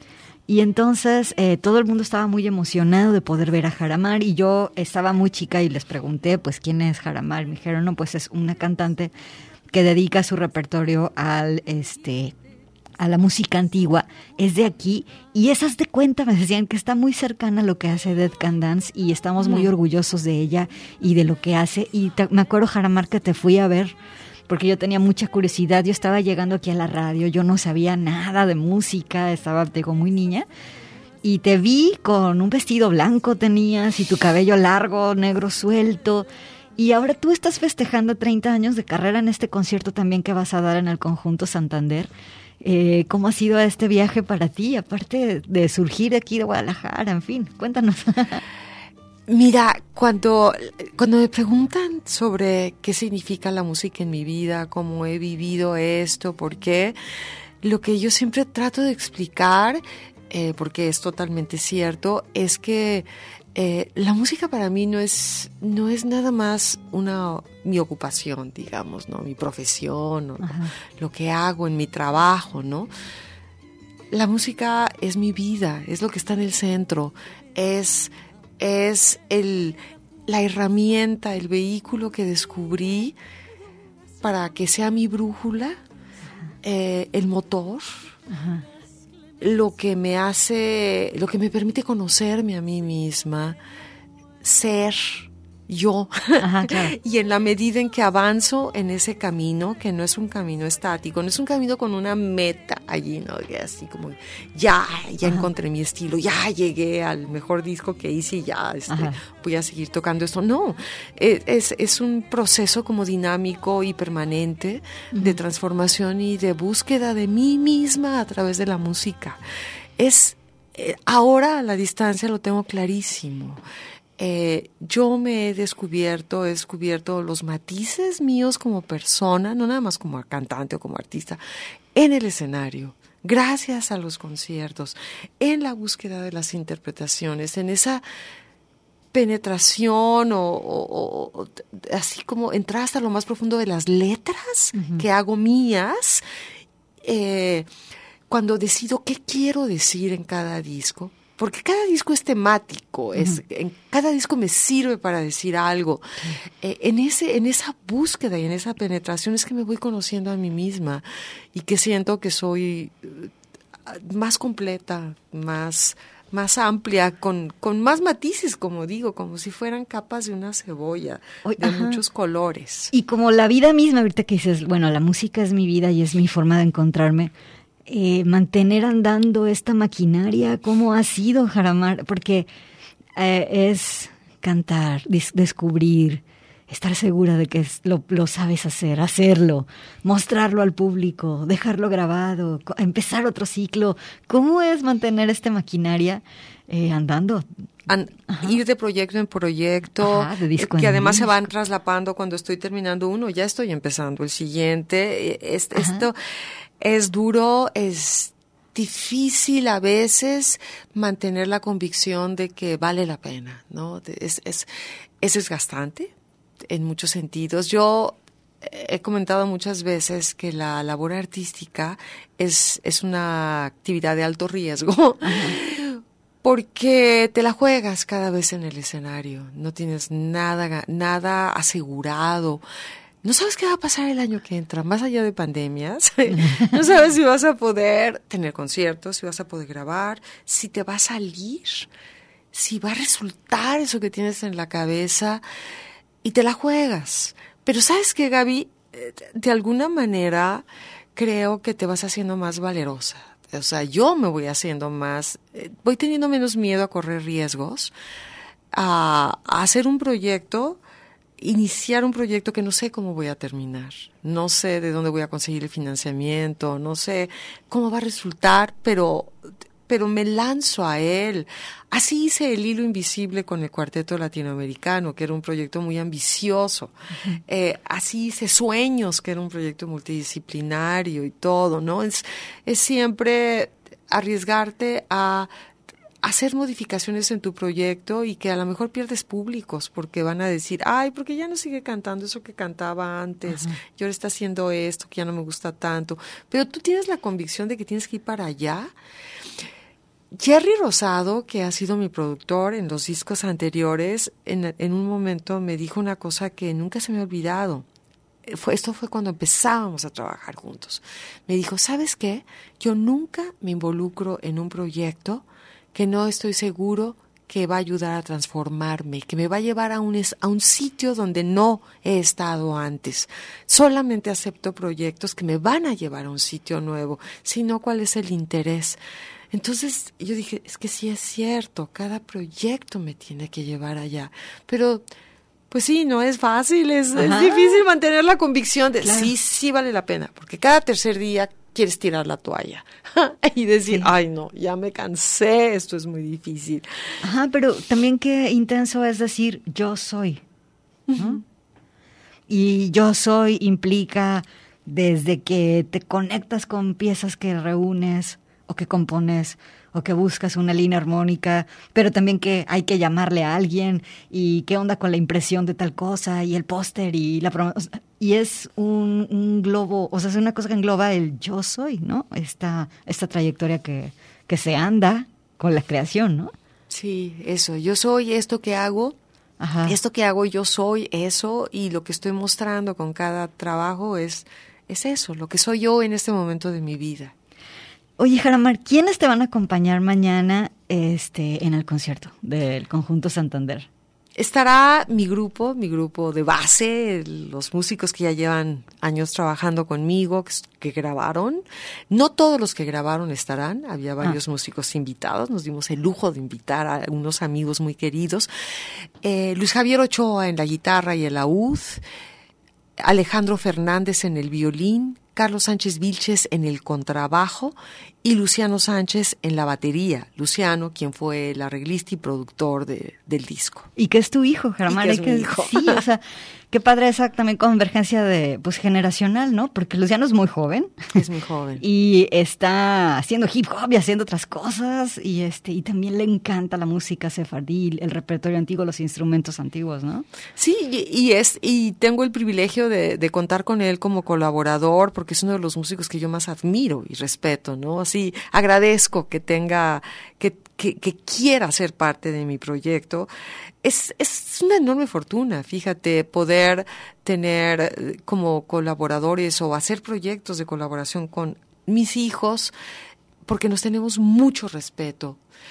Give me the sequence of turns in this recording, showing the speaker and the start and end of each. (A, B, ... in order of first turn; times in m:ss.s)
0:00.5-0:09.1 A
0:09.7-0:12.3 A
0:13.0-0:23.9 A
0:19.4-0:19.7 B
0:24.5-0:30.5 A
0:31.2-0:42.1 A
0:42.6-0:48.4 A
0:49.3-0:57.0 B
0:57.6-1:12.9 B
1:10.4-1:10.7 A
1:14.1-1:23.2 B
1:24.2-1:25.8 B
1:26.6-1:28.0 B
1:28.3-1:28.6 A
1:29.4-1:33.6 B
1:34.4-1:59.4 B
1:36.4-1:36.9 A
1:48.9-1:49.2 A
2:00.0-2:03.6 B
2:04.2-2:11.4 B
2:11.9-2:18.0 B
2:19.1-2:26.2 B
2:24.8-2:25.0 A
2:27.0-2:27.7 B
2:28.3-2:43.3 B
2:43.9-2:52.9 B
2:51.4-2:52.0 A
2:52.9-2:57.3 A
2:57.9-3:02.5 A
3:03.2-3:17.5 A
3:17.9-3:26.2 B
3:18.3-3:18.5 A
3:20.0-3:21.4 A
3:25.7-3:26.0 A
3:26.8-3:34.7 B
3:35.2-3:36.1 B
3:36.7-3:52.6 B
3:45.2-3:45.6 A
3:53.2-4:01.9 B
3:56.3-3:56.7 A
4:02.5-4:05.4 B
4:06.2-4:17.9 B
4:18.7-4:20.8 B
4:21.4-4:36.9 B
4:37.5-4:45.5 B
4:46.2-4:58.9 B
4:53.5-4:53.8 A
5:00.3-5:07.9 B
5:08.4-5:29.0 B
5:29.5-5:35.0 B
5:35.7-5:46.9 B
5:37.2-5:37.8 A
5:39.0-5:39.3 A
5:47.2-5:50.4 A
5:51.1-5:51.4 B
5:52.5-6:16.5 A
6:16.9-6:19.2 B
6:19.6-6:20.0 A
6:19.9-6:27.3 B
6:28.2-6:33.9 A
6:34.4-6:48.5 B
6:49.2-6:52.0 B
6:53.0-7:03.9 B
7:04.0-7:11.1 A
7:04.9-7:06.0 B
7:11.1-7:11.8 B
7:11.8-7:20.2 A
7:20.6-7:33.3 B
7:33.8-7:42.7 B
7:43.4-7:45.4 B